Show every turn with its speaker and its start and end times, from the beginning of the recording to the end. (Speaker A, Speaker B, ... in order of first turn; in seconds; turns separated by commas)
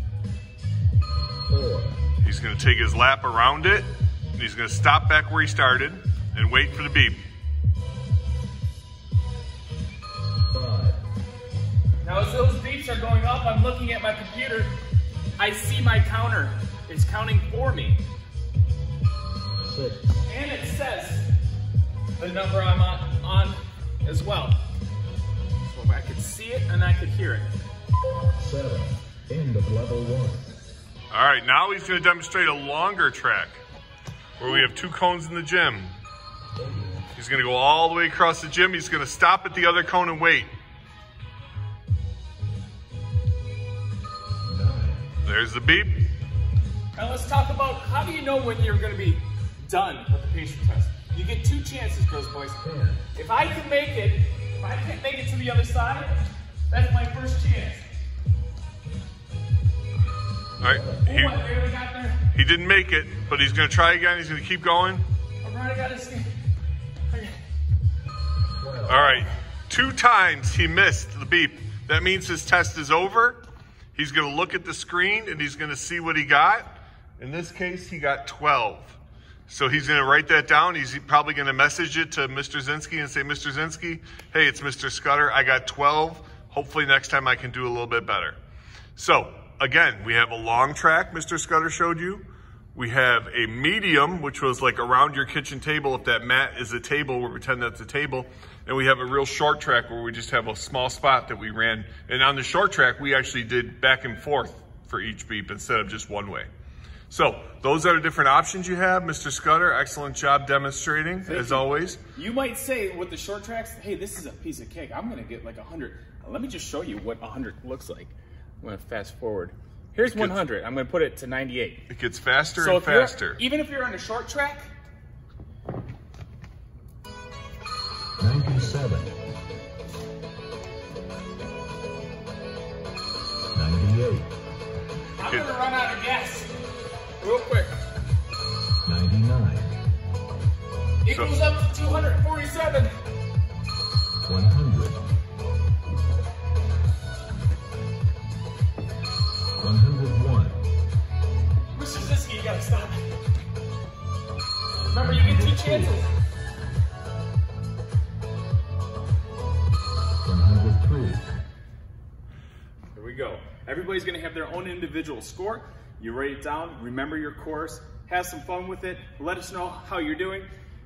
Speaker A: 1.5-2.0, Speaker B: 2.2-7.2, Speaker A: 10.5-11.0, Speaker C: 12.0-14.7, Speaker C: 15.4-18.0, Speaker A: 19.7-20.2, Speaker C: 20.2-21.3, Speaker C: 22.2-24.6, Speaker C: 25.6-27.5, Speaker A: 28.4-30.5, Speaker B: 31.1-33.6, Speaker B: 34.4-35.9, Speaker A: 36.6-37.0, Speaker B: 37.1-40.5, Speaker A: 44.5-45.0, Speaker B: 45.2-46.0, Speaker C: 47.0-57.9, Speaker A: 52.6-53.0, Speaker A: 60.6-61.0, Speaker B: 60.6-61.4, Speaker C: 61.0-62.2, Speaker B: 62.3-65.0, Speaker C: 65.4-66.3, Speaker C: 67.1-67.4, Speaker A: 68.6-69.0, Speaker B: 68.9-73.4, Speaker B: 74.0-88.4, Speaker B: 89.0-106.5, Speaker B: 107.1-112.0, Speaker C: 111.3-121.8, Speaker B: 120.0-120.4, Speaker B: 121.9-123.4, Speaker C: 122.6-124.7, Speaker A: 128.2-129.2, Speaker A: 133.5-134.3, Speaker C: 135.2-136.5, Speaker B: 135.2-135.5, Speaker C: 137.2-137.7, Speaker A: 138.8-139.8, Speaker C: 141.0-142.9, Speaker B: 141.1-141.4, Speaker A: 144.2-145.0, Speaker A: 149.6-150.6, Speaker C: 151.7-153.1, Speaker C: 154.9-156.1, Speaker A: 155.0-155.9, Speaker A: 160.2-161.2, Speaker C: 162.9-170.5